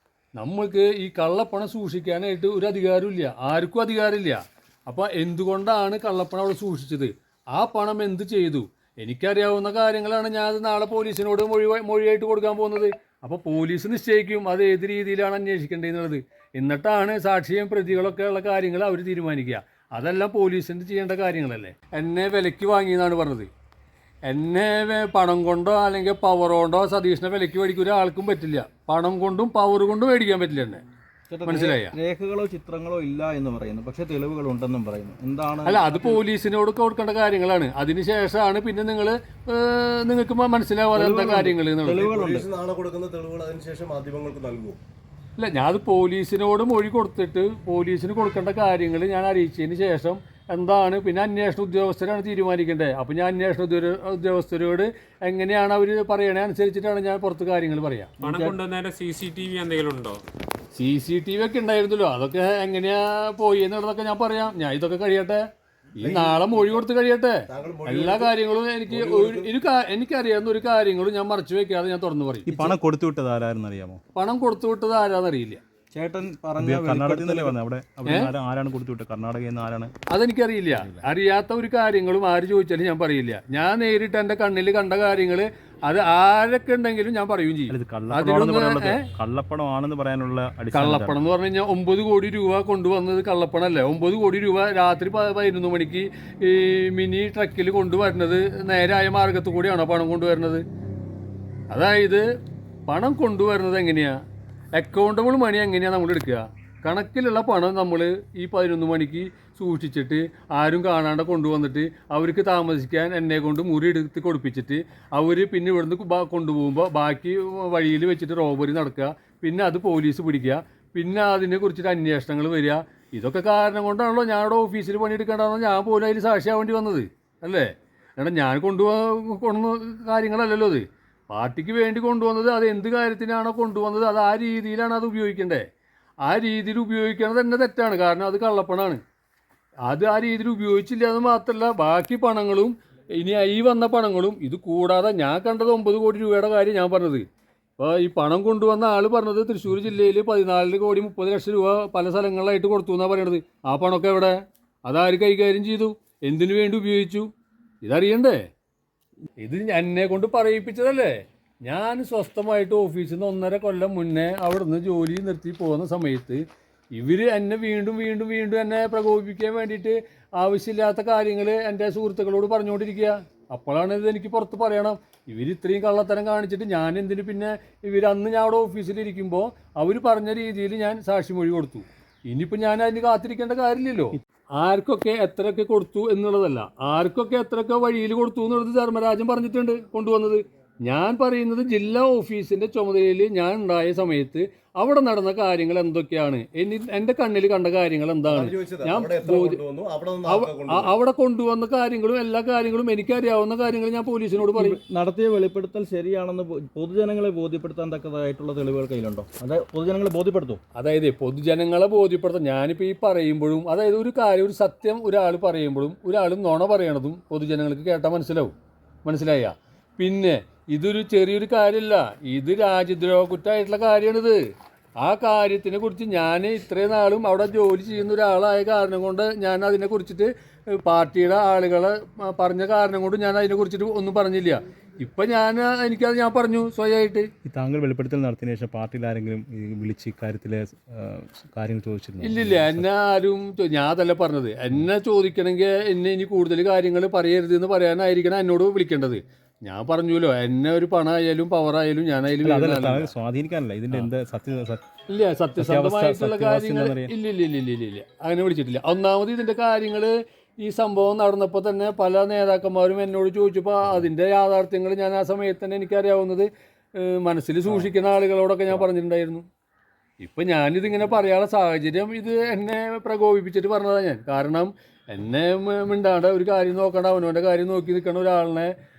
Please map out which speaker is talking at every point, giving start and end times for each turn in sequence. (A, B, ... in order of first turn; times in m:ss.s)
0:00.4-0:23.5 A
0:24.3-0:30.8 A
0:31.3-0:36.2 B
0:31.4-0:31.9 A
0:35.6-0:42.1 A
0:40.9-0:42.5 B
0:41.9-0:44.8 C
0:45.4-0:58.1 A
0:58.2-0:58.6 B
0:58.2-1:00.2 D
1:00.7-1:05.4 A
1:06.0-1:12.7 A
1:06.0-1:06.8 C
1:07.5-1:08.3 C
1:08.9-1:09.5 C
1:12.4-1:14.0 E
1:14.1-1:15.6 A
1:15.9-1:17.6 B
1:16.6-1:19.9 E
1:18.0-1:18.3 A
1:20.1-1:29.1 A
1:20.7-1:21.0 E
1:27.7-1:31.2 E
1:30.7-1:40.6 A
1:41.7-1:42.2 A
1:42.9-1:44.1 A
1:44.8-2:15.6 A
2:16.2-2:19.0 A
2:19.9-2:27.2 A
2:27.8-2:37.3 A
2:37.8-2:38.4 A
2:39.4-2:46.4 A
2:46.9-3:19.6 A
3:18.3-3:20.9 C
3:20.2-3:24.8 A
3:24.4-3:30.6 B
3:30.7-3:38.5 A
3:39.0-3:44.4 A
3:45.0-3:50.3 A
3:50.8-3:57.3 A
3:57.4-4:02.8 E
4:02.2-4:13.1 A
4:12.4-4:14.8 E
4:15.1-4:29.4 A
4:15.6-4:17.1 E
4:23.8-4:24.1 E
4:27.6-4:27.9 E
4:30.2-4:38.7 A